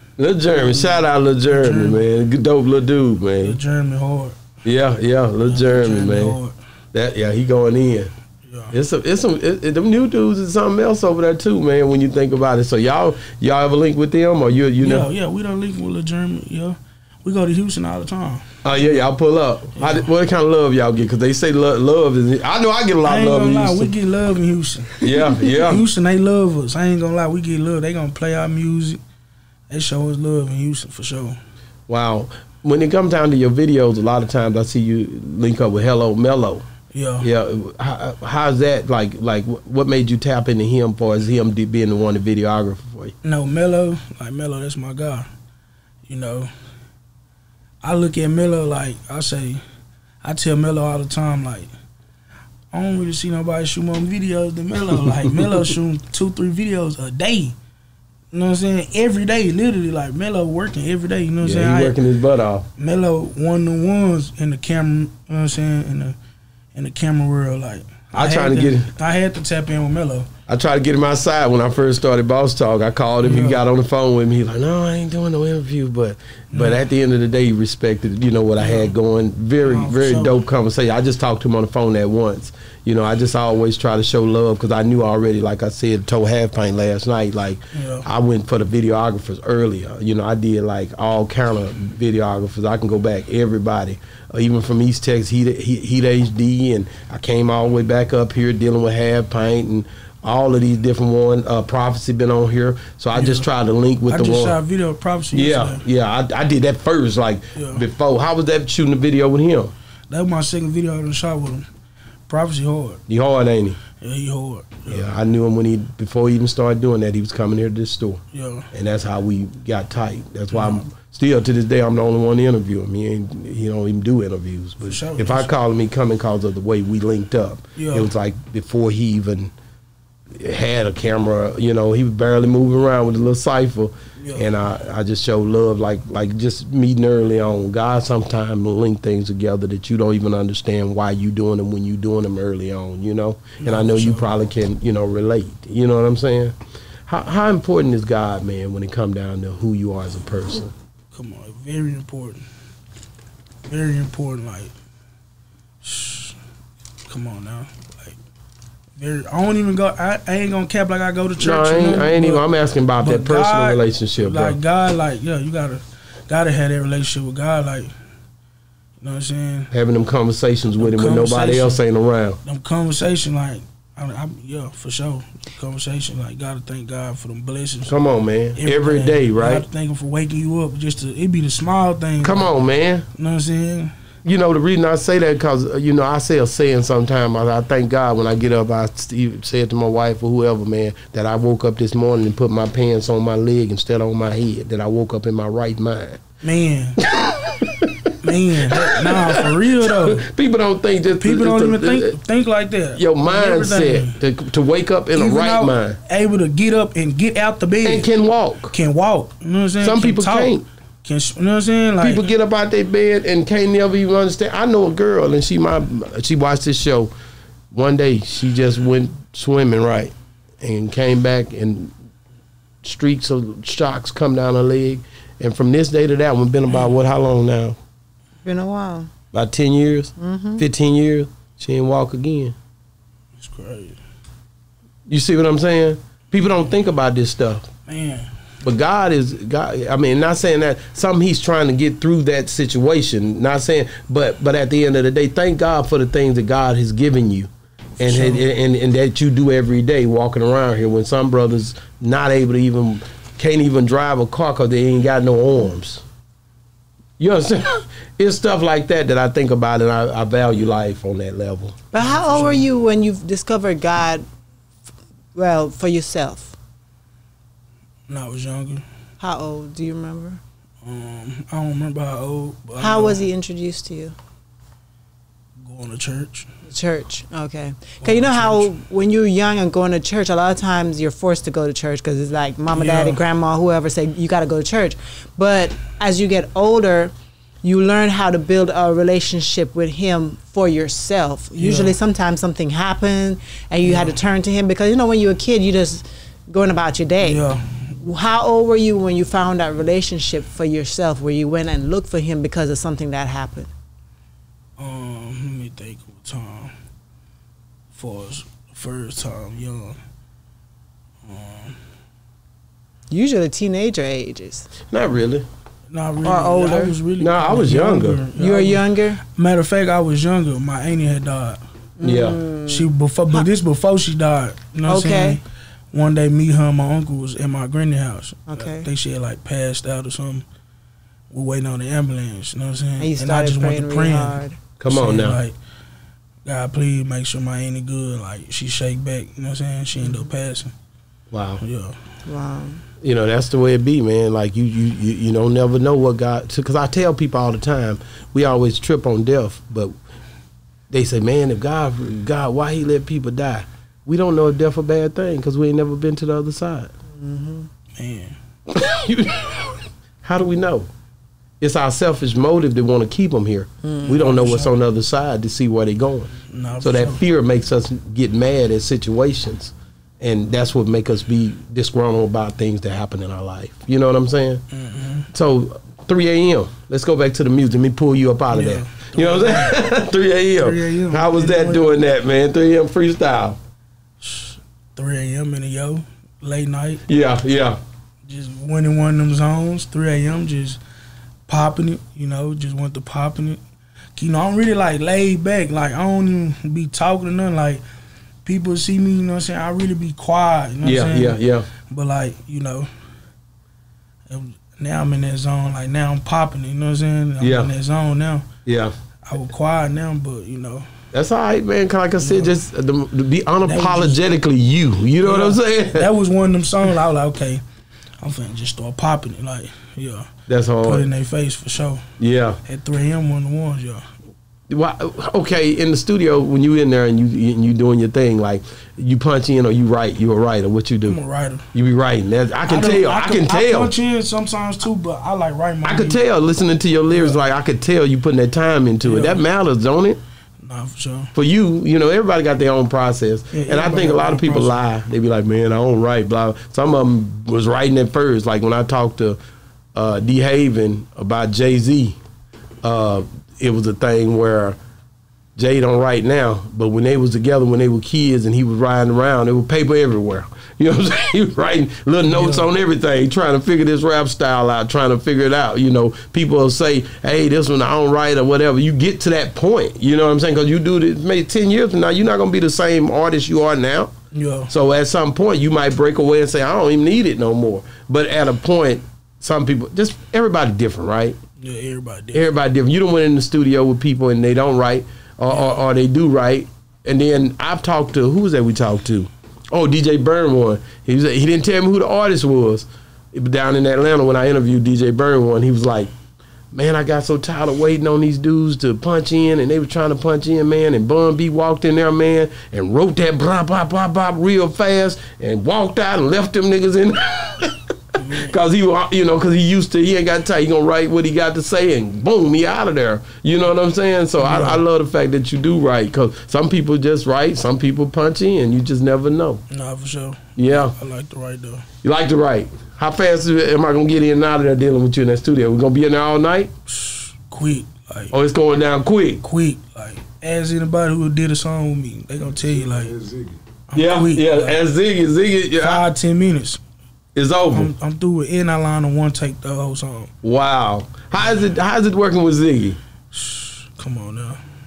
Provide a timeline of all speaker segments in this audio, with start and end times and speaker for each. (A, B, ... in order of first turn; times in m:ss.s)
0:00.2-0:03.6 A
0:01.5-0:02.0 B
0:03.4-0:04.4 B
0:04.6-0:06.4 A
0:05.4-0:06.6 B
0:06.9-0:08.1 A
0:08.5-0:08.7 B
0:08.7-0:15.1 A
0:14.8-0:18.5 B
0:18.6-0:23.9 A
0:19.8-0:20.1 B
0:23.0-0:29.0 B
0:25.0-0:25.8 A
0:29.7-0:31.4 B
0:31.9-0:36.6 A
0:36.9-0:37.3 B
0:37.2-0:43.1 A
0:43.2-0:45.3 B
0:46.1-0:46.5 B
0:47.8-0:49.6 B
0:50.2-0:51.7 B
0:52.7-0:57.6 B
0:55.0-0:55.6 A
0:58.3-1:02.0 B
1:01.4-1:02.7 A
1:02.8-1:06.2 B
1:06.8-1:10.3 B
1:08.1-1:08.9 A
1:10.5-1:44.6 A
1:13.2-1:13.6 B
1:16.5-1:16.8 B
1:18.6-1:18.9 B
1:19.6-1:20.4 B
1:27.7-1:28.1 B
1:43.1-1:43.5 B
1:44.1-1:45.8 B
1:45.3-1:49.7 A
1:47.6-1:47.8 B
1:50.1-1:51.7 B
1:52.3-1:53.0 B
1:53.1-1:53.8 A
1:54.0-1:55.1 B
1:54.9-2:09.5 A
1:58.3-1:58.7 B
2:00.5-2:00.8 B
2:04.8-2:05.5 B
2:07.8-2:08.1 B
2:10.3-2:26.6 A
2:14.2-2:14.5 B
2:23.6-2:24.3 B
2:27.1-2:30.7 A
2:31.1-2:32.4 B
2:33.7-2:34.7 B
2:35.8-2:36.4 B
2:37.1-2:38.2 B
2:39.0-2:42.4 B
2:41.4-2:44.6 A
2:43.0-2:47.9 B
2:49.0-2:49.7 B
2:49.7-2:52.4 A
2:50.8-2:51.8 B
2:52.4-2:58.0 B
2:57.9-2:59.6 A
2:58.6-3:02.5 B
3:02.2-3:03.1 A
3:03.1-3:03.9 B
3:04.2-3:16.2 A
3:16.4-3:17.0 B
3:17.0-3:22.2 A
3:18.2-3:20.2 B
3:21.2-3:24.2 B
3:23.0-3:26.0 A
3:25.1-3:28.1 B
3:27.8-3:28.7 A
3:28.7-3:32.2 B
3:29.8-3:30.6 A
3:32.0-3:37.1 A
3:37.7-3:41.9 A
3:42.8-3:47.8 A
3:48.4-3:49.1 C
3:49.3-3:52.6 A
3:50.2-3:50.6 C
3:53.4-3:54.0 B
3:55.1-3:57.7 A
3:57.9-3:58.3 B
3:58.6-4:16.0 A
4:08.0-4:08.4 B
4:17.2-4:21.8 A
4:21.9-4:24.2 C
4:22.0-4:22.6 B
4:25.4-4:26.6 C
4:28.1-4:28.8 B
4:29.2-4:30.4 C
4:30.8-4:33.2 B
4:32.8-4:34.2 C
4:35.6-4:36.5 B
4:36.7-4:57.4 C
4:38.0-4:38.7 B
4:42.7-4:43.2 B
4:51.6-4:52.0 B
4:53.8-4:54.2 B
4:57.2-4:57.9 B
4:58.0-5:03.7 C
5:04.8-5:06.7 B
5:07.9-5:10.0 B
5:11.2-5:11.8 B
5:13.1-5:14.7 C
5:14.9-5:15.5 A
5:15.9-5:21.6 B
5:16.2-5:17.0 C
5:17.2-5:18.2 A
5:18.4-5:19.2 C
5:22.0-5:23.4 C
5:22.0-5:22.4 A
5:22.7-5:30.4 B
5:24.9-5:25.4 C
5:28.5-5:28.9 C
5:31.3-5:35.6 B
5:33.0-5:34.6 C
5:34.8-5:35.4 A
5:36.4-5:40.7 B
5:40.0-5:40.3 C
5:41.3-5:41.6 A
5:41.6-5:42.0 B
5:42.3-5:42.8 C
5:43.0-5:49.9 A
5:50.9-5:56.9 A
5:57.1-5:57.7 C
5:58.0-5:58.4 B
5:58.7-6:00.9 A
6:01.6-6:14.6 A
6:03.8-6:04.1 C
6:04.1-6:04.7 B
6:06.5-6:07.2 B
6:14.7-6:15.3 B
6:15.3-6:23.6 A
6:18.5-6:19.8 B
6:20.6-6:21.8 B
6:24.2-6:27.0 B
6:27.1-6:27.8 A
6:28.3-6:30.8 B
6:31.5-6:33.6 B
6:34.2-6:37.8 B
6:38.4-6:42.9 B
6:40.8-6:41.7 A
6:44.3-6:48.5 B
6:47.4-6:47.7 A
6:48.7-6:49.0 A
6:49.3-6:50.9 B
6:51.1-6:56.1 A
6:52.2-6:52.5 B
6:53.6-6:54.2 B
6:55.2-6:57.6 B
6:58.2-7:00.3 B
7:00.5-7:01.1 A
7:00.8-7:02.1 B
7:02.2-7:02.6 A
7:02.7-7:04.0 B
7:04.7-7:11.2 A
7:11.0-7:11.7 B
7:11.7-7:13.9 A
7:12.7-7:16.2 B
7:15.8-7:20.2 A
7:17.1-7:17.4 B
7:19.0-7:19.4 B
7:20.6-7:21.3 B
7:21.4-7:29.4 A
7:23.5-7:24.8 B
7:30.0-7:32.2 A
7:32.8-7:34.8 A
7:35.6-7:54.1 A
7:42.3-7:42.7 B
7:54.3-7:54.7 B
7:54.7-8:01.4 A
8:01.6-8:02.4 B
8:02.3-8:16.1 A
8:16.7-8:39.6 A
8:28.2-8:28.5 B
8:34.4-8:34.8 B
8:39.7-8:41.9 B
8:40.6-8:41.0 A
8:42.0-8:46.7 A
8:46.9-8:48.3 B
8:48.3-8:49.4 A
8:49.4-8:54.8 B
8:54.0-8:56.1 A
8:55.8-8:56.8 B
8:57.4-8:57.9 A
8:57.7-9:00.3 B
9:00.4-9:03.0 A
9:03.3-9:04.6 B